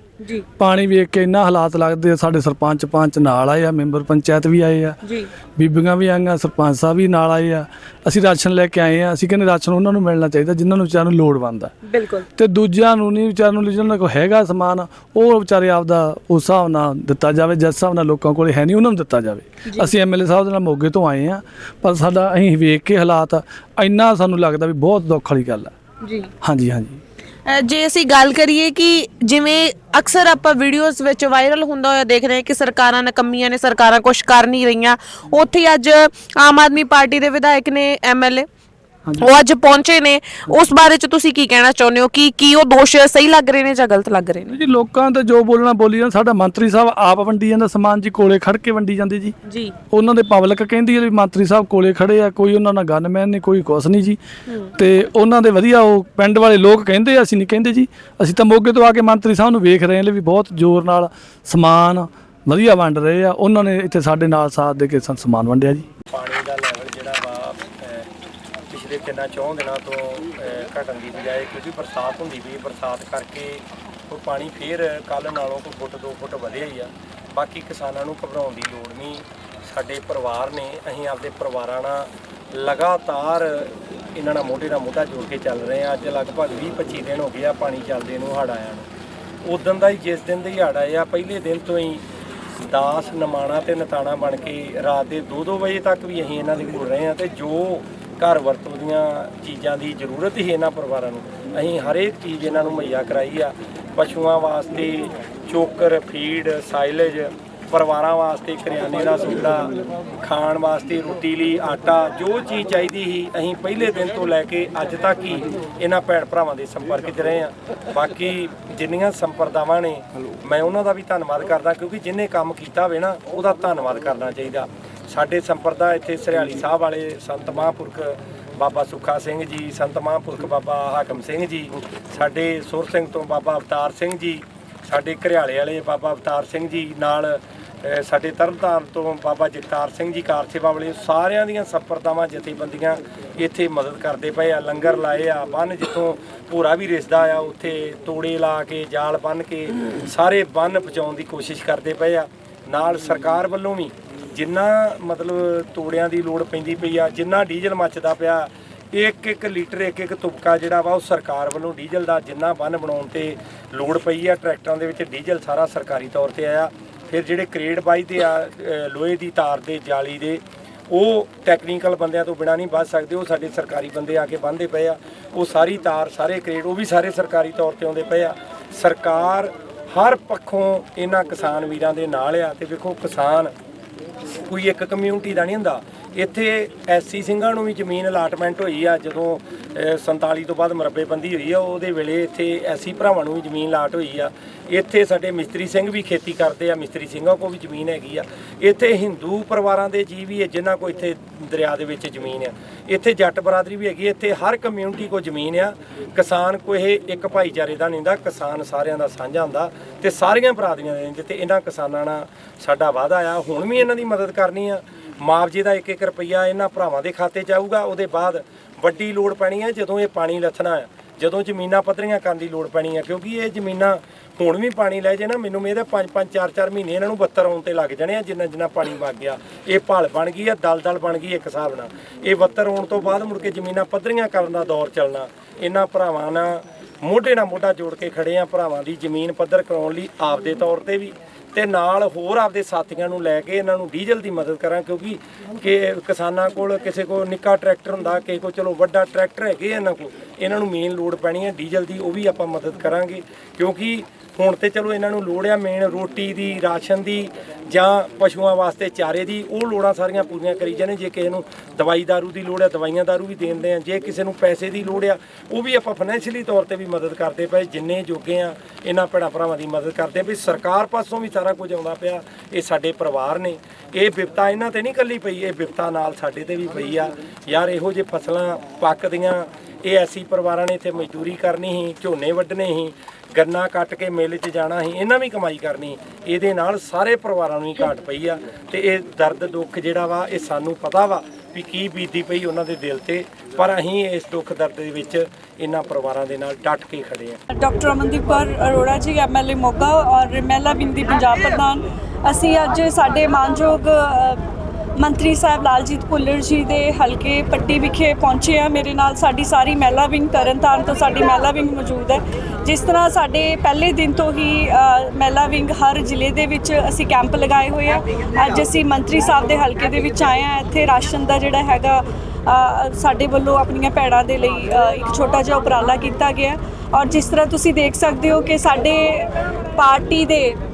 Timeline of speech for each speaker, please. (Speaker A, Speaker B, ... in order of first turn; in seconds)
Speaker A: 0.2-0.5, 5.0-5.3, 11.9-12.3, 26.0-26.3, 27.5-38.5, 39.2-44.6, 49.5-49.8, 54.5-54.7
Speaker B: 0.6-5.0, 5.6-11.7, 12.4-25.7, 26.4-27.0, 44.5-49.4, 49.9-54.2, 54.8-65.9
Speaker C: 66.1-68.1, 68.7-88.9, 89.5-92.0, 92.6-183.5, 184.5-297.4
Speaker D: 297.5-304.4, 305.0-330.6